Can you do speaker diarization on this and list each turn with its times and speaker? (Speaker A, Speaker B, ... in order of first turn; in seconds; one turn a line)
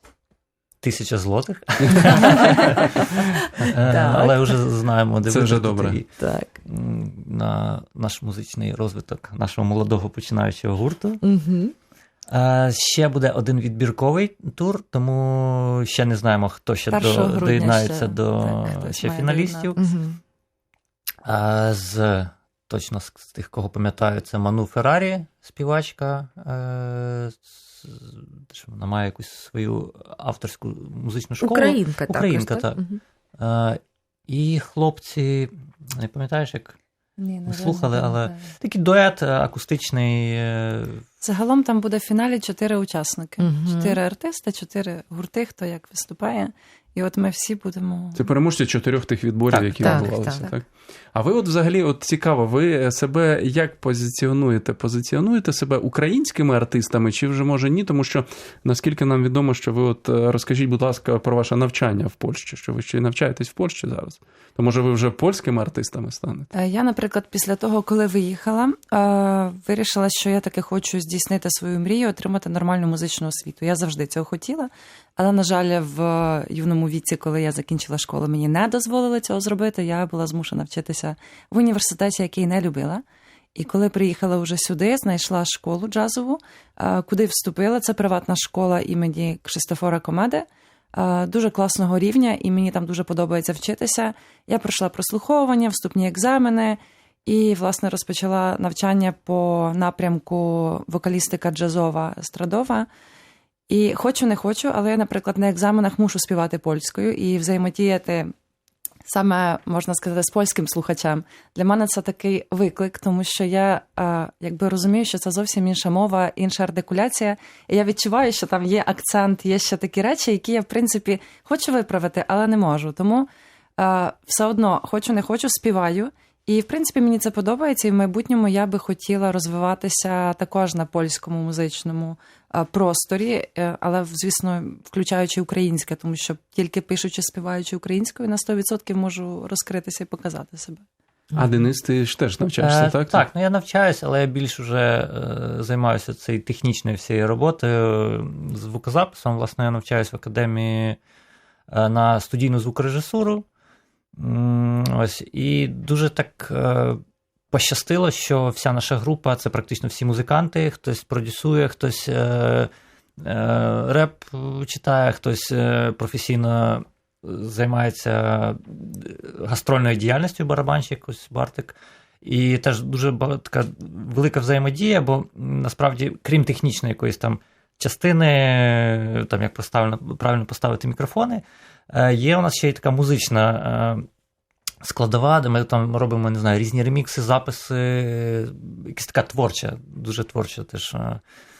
Speaker A: 0.8-11.2
Speaker B: 3.8-4.5
Speaker C: 5.3-6.0
Speaker B: 6.2-6.5
Speaker B: 11.2-11.7
Speaker A: 12.3-19.8
Speaker D: 16.9-19.8
Speaker B: 19.8-20.2
Speaker A: 21.2-32.8
Speaker B: 31.4-33.0
Speaker A: 33.4-36.8
Speaker D: 37.2-38.5
Speaker A: 37.5-41.0
Speaker D: 41.2-48.3
Speaker B: 43.4-44.0
Speaker C: 48.1-66.5
Speaker A: 49.5-50.0
Speaker B: 49.8-50.5
Speaker D: 49.9-50.5
Speaker D: 66.5-83.0
Speaker D: 83.5-102.9
Speaker D: 103.7-108.3
Speaker D: 109.0-140.8
Speaker C: 141.3-143.2
Speaker A: 142.6-151.0
Speaker A: 151.7-153.4
Speaker A: 154.2-157.0
Speaker A: 157.5-162.7
Speaker A: 163.2-184.0
Speaker A: 184.8-191.2